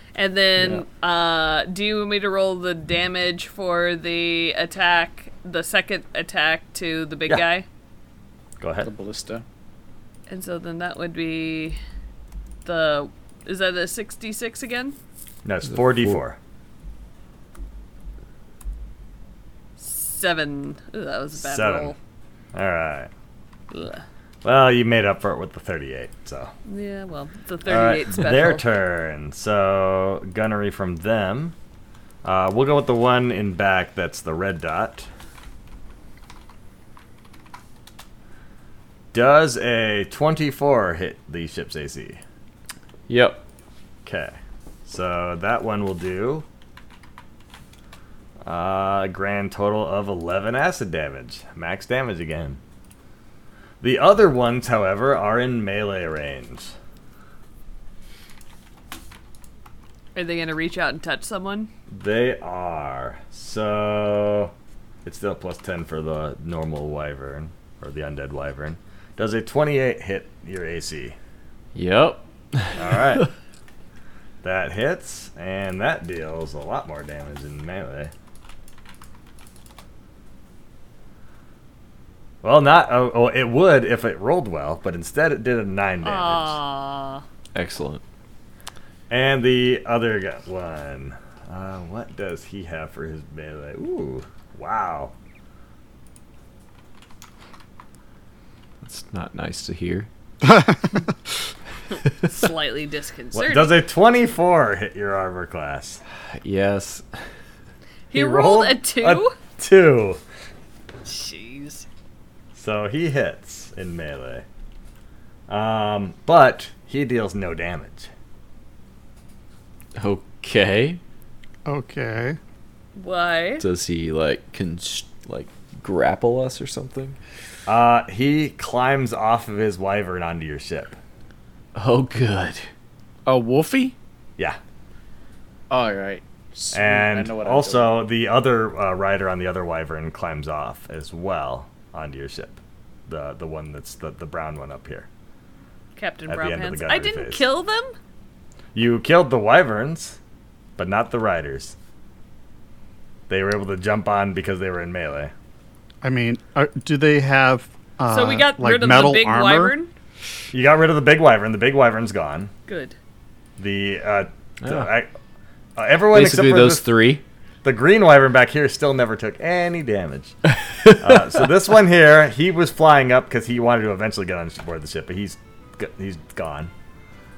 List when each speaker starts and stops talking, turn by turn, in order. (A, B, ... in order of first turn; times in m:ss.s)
0:00.1-0:07.6 A
0:00.6-0:00.8 B
0:08.6-0:08.9 B
0:08.8-0:09.4 C
0:10.3-0:11.8 A
0:12.6-0:15.0 A
0:15.4-0:16.4 B
0:15.7-0:16.2 D
0:19.8-0:22.0 A
0:21.4-0:21.9 B
0:22.5-0:23.1 B
0:23.7-0:24.0 A
0:24.4-0:26.5 B
0:26.6-0:28.6 A
0:27.6-0:31.5 B
0:32.2-0:35.1 B
0:39.1-0:42.2 B
0:43.1-0:43.4 D
0:44.0-0:46.4 B
0:48.4-0:52.6 B
0:53.8-0:56.7 B
1:00.1-1:01.7 A
1:01.9-1:04.5 B
1:05.0-1:11.2 B
1:11.7-1:13.3 D
1:12.7-1:13.3 B
1:14.4-1:18.1 B
1:22.4-1:26.6 B
1:26.0-1:27.2 A
1:27.5-1:28.0 D
1:29.1-1:35.1 B
1:38.8-1:40.1 D
1:40.4-1:41.1 E
1:42.2-1:43.7 A
1:43.3-1:46.0 B
1:46.2-1:47.2 D
1:48.1-1:49.3 A
1:48.1-1:50.2 B
1:51.0-1:51.8 A
1:52.5-1:54.4 B
1:55.5-1:58.1 B
2:00.0-2:01.0 D
2:01.6-2:02.4 E
2:03.0-2:03.6 A
2:03.6-2:07.2 D
2:07.7-2:11.0 B
2:11.7-2:12.7 D
2:13.2-2:14.0 C
2:15.7-2:17.9 C
2:16.7-2:25.1 B
2:26.0-2:27.9 A
2:26.3-2:27.4 B
2:28.7-2:30.2 B
2:30.8-2:31.8 B
2:33.3-2:35.3 B
2:36.0-2:39.8 E
2:38.1-2:39.9 A
2:40.5-2:42.5 B
2:42.7-2:42.9 A
2:43.6-2:45.1 B
2:44.6-2:44.9 D
2:45.8-2:46.9 B
2:46.1-2:47.2 D
2:47.6-2:50.4 B
2:50.6-2:50.9 D
2:51.0-2:56.7 B